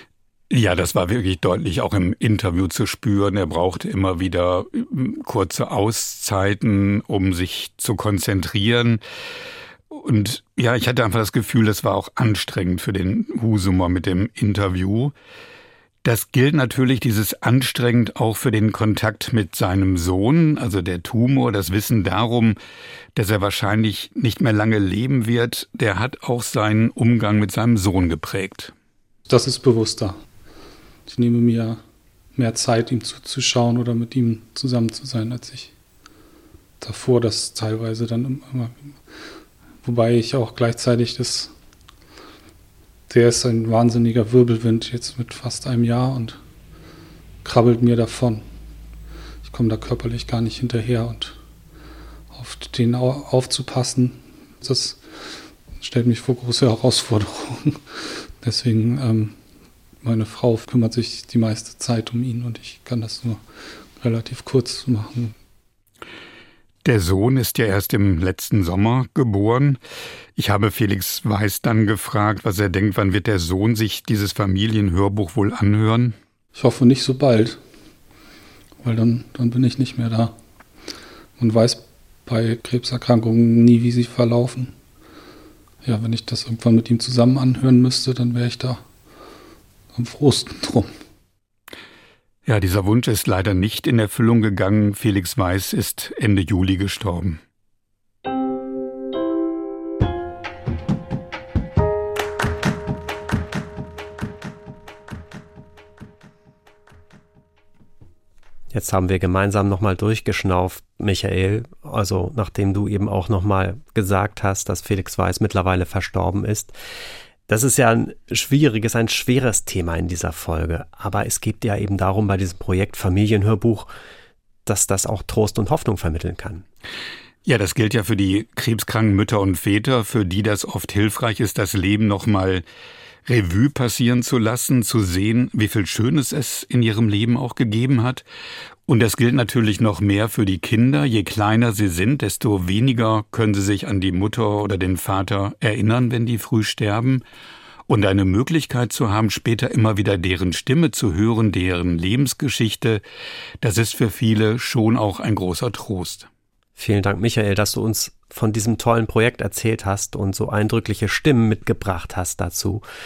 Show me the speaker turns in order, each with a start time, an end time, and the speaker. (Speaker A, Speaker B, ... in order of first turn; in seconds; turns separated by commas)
Speaker A: 0.5-9.0, Speaker A: 9.9-15.1, Speaker A: 16.0-22.6, Speaker A: 23.2-28.7, Speaker B: 29.3-30.2, Speaker B: 31.1-31.8, Speaker B: 32.4-35.7, Speaker B: 36.8-39.0, Speaker B: 39.8-41.5, Speaker B: 43.1-46.4, Speaker B: 47.4-48.4, Speaker B: 49.4-51.4, Speaker B: 52.3-57.8, Speaker B: 58.4-59.4, Speaker B: 60.0-63.4, Speaker B: 64.0-65.3, Speaker A: 66.8-69.8, Speaker A: 70.4-76.2, Speaker B: 76.5-77.6, Speaker B: 78.8-80.3, Speaker B: 81.4-84.7, Speaker B: 85.8-88.8, Speaker B: 89.9-90.9, Speaker A: 92.5-97.4, Speaker C: 108.7-116.8, Speaker C: 117.5-123.9, Speaker C: 124.7-126.7, Speaker A: 127.5-132.6, Speaker A: 133.3-138.2, Speaker A: 138.9-147.2, Speaker A: 147.9-153.0, Speaker A: 153.6-156.3, Speaker C: 156.8-162.8